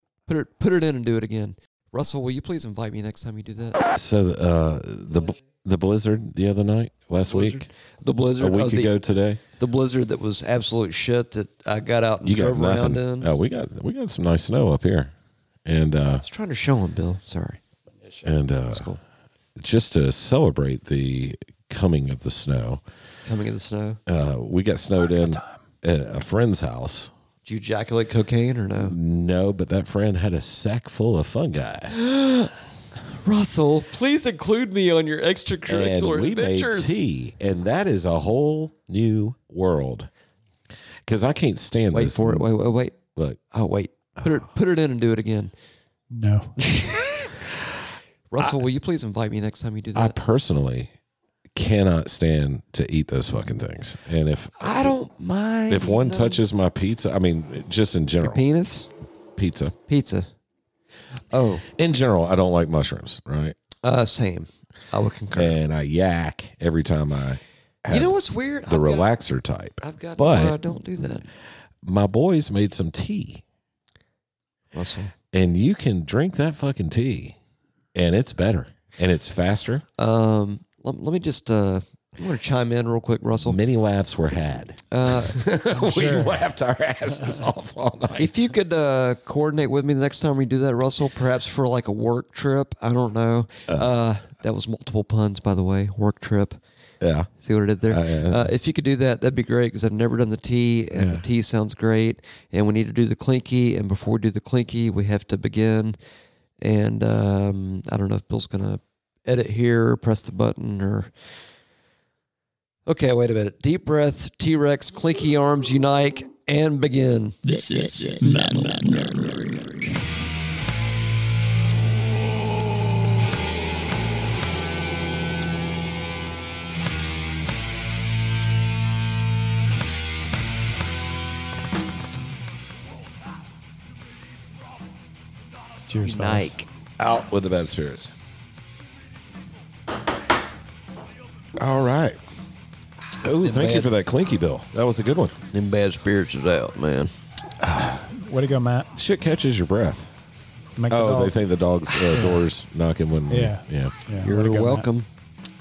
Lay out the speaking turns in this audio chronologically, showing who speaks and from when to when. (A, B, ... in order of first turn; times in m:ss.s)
0:00.3-0:03.8 A
0:03.9-0:07.6 B
0:07.3-0:08.9 A
0:08.4-0:09.4 B
0:09.6-0:13.3 A
0:12.2-0:15.1 B
0:15.6-0:16.2 B
0:16.2-0:17.6 A
0:18.2-0:18.9 B
0:18.7-0:19.0 A
0:19.6-0:22.8 B
0:23.2-0:24.0 A
0:24.1-0:27.1 B
0:25.1-0:25.4 C
0:27.4-0:29.0 A
0:28.8-0:32.0 B
0:31.9-0:32.5 A
0:33.2-0:37.0 A
0:35.7-0:40.1 B
0:41.0-0:42.5 B
0:41.9-0:43.0 A
0:43.1-0:43.4 B
0:43.5-0:45.5 A
0:46.1-0:46.6 C
0:46.6-0:47.3 A
0:48.3-0:50.2 A
0:49.9-0:50.9 B
0:51.5-0:54.9 B
0:54.6-0:56.4 A
0:55.7-0:58.4 B
0:58.2-0:58.9 A
0:59.4-0:59.8 B
0:59.9-1:00.3 A
1:01.3-1:01.6 A
1:01.7-1:03.6 B
1:03.8-1:05.6 A
1:05.3-1:10.6 B
1:07.9-1:09.1 A
1:09.8-1:11.3 A
1:11.8-1:13.4 B
1:14.7-1:15.1 A
1:15.3-1:17.4 B
1:17.9-1:19.8 B
1:20.0-1:23.6 A
1:23.4-1:28.3 B
1:24.9-1:25.4 A
1:25.7-1:26.5 C
1:28.2-1:36.6 A
1:37.0-1:37.3 B
1:37.4-1:46.0 A
1:37.9-1:38.5 B
1:40.9-1:41.2 B
1:46.6-1:51.1 A
1:52.8-1:59.6 A
1:57.9-1:59.1 C
2:15.9-2:16.5 C
2:16.0-2:16.7 A
2:17.0-2:18.1 B
2:21.6-2:22.2 B
2:23.2-2:25.4 B
2:23.4-2:23.9 A
2:25.5-2:27.1 A
2:27.6-2:28.9 C
2:28.9-2:30.1 B
2:30.8-2:31.4 C
2:30.9-2:34.0 B
2:33.3-2:34.9 C
2:34.2-2:35.1 A